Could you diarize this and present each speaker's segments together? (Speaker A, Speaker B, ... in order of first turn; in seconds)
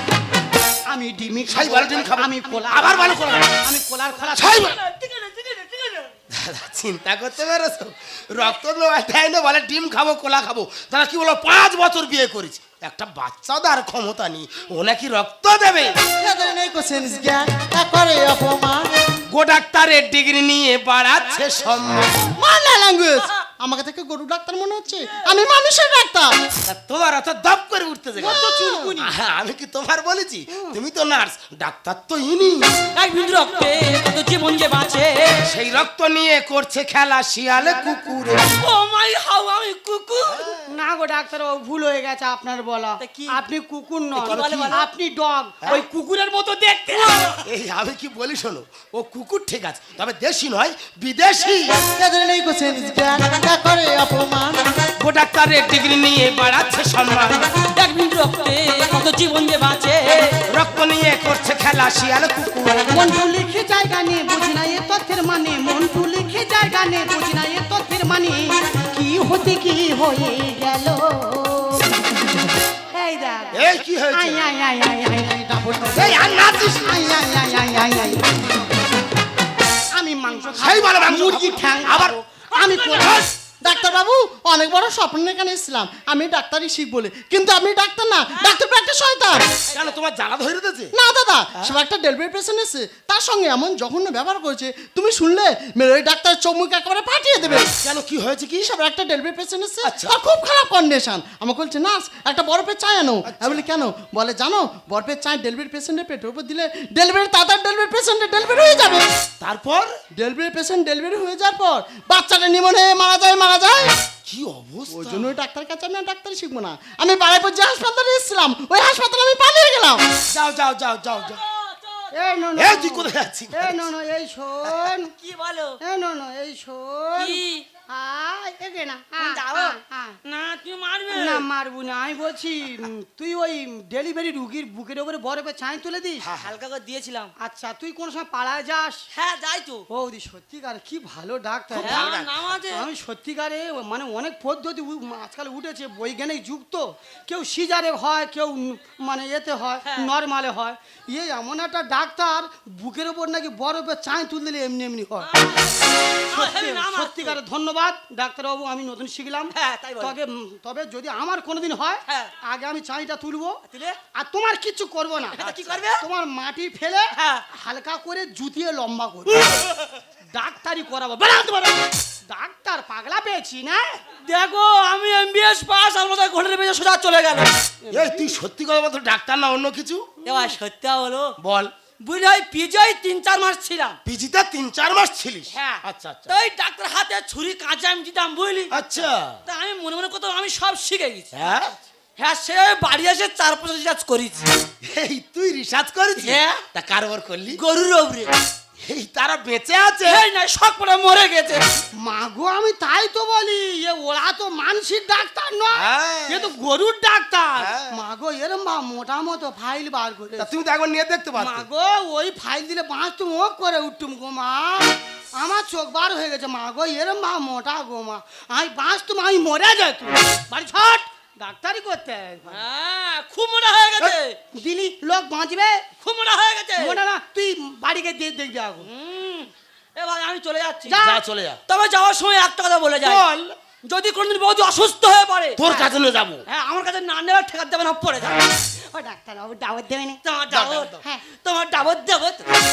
Speaker A: 0.9-4.8, 28.2-29.1, 30.5-30.8, 40.6-47.4, 62.9-72.3, 72.9-78.6, 79.9-83.2, 122.1-125.1, 125.8-127.4, 127.9-130.2, 131.1-136.3, 137.4-139.0, 139.9-142.1, 142.7-155.3, 156.3-163.6, 164.1-165.4, 166.0-169.4, 170.3-174.0, 177.9-178.2, 202.0-210.5, 211.4-222.6, 224.5-225.8, 226.8-228.9, 230.9-231.2, 235.6-235.9, 238.9-240.2, 241.0-241.2
Speaker B: 1.5-3.6, 4.3-4.8, 6.3-15.9, 19.3-22.2, 26.6-28.4, 29.0-32.8, 35.5-38.5, 40.3-40.6, 44.2-44.8, 47.5-51.8, 55.0-57.5, 60.5-62.9, 73.5-74.4, 75.9-76.9, 80.5-83.2, 89.7-90.9, 97.8-98.7, 99.8-100.2, 103.3-103.6, 109.4-109.9, 114.2-115.3, 120.3-121.4, 122.5-123.9, 136.2-136.5, 141.7-142.3, 165.5-165.8, 177.9-180.1, 181.4-181.7, 184.1-186.3, 188.7-189.4, 191.3-191.7, 194.8-197.6, 198.8-200.2, 205.8-206.5, 207.6-207.9, 210.4-211.6, 231.0-231.6, 233.0-233.5, 235.6-236.4, 240.5-240.9
Speaker C: 4.5-6.1, 33.0-35.1, 38.5-40.5, 43.0-43.4, 44.1-44.8, 47.1-47.4, 57.8-60.4, 88.3-88.6, 89.7-90.0, 121.2-122.1, 125.1-125.8, 127.2-127.7, 129.2-131.4, 136.4-137.3, 139.1-139.8, 141.8-142.8, 155.2-157.4, 159.5-160.1, 162.1-162.3, 163.7-164.0, 165.4-166.0, 167.2-167.4, 169.3-170.0, 174.2-177.5, 180.2-181.3, 182.0-184.0, 185.5-188.7, 189.5-191.3, 192.2-194.5, 196.2-196.6, 197.5-198.3, 200.1-201.6, 222.5-224.3, 226.0-227.0, 228.8-231.0, 231.7-233.2, 233.9-235.6, 236.5-238.4, 240.2-242.5
Speaker D: 16.2-18.9, 22.2-26.3, 28.2-28.9, 51.8-54.6, 75.5-76.1, 83.6-89.4, 90.9-97.7, 98.6-109.0, 110.2-113.9, 114.9-120.0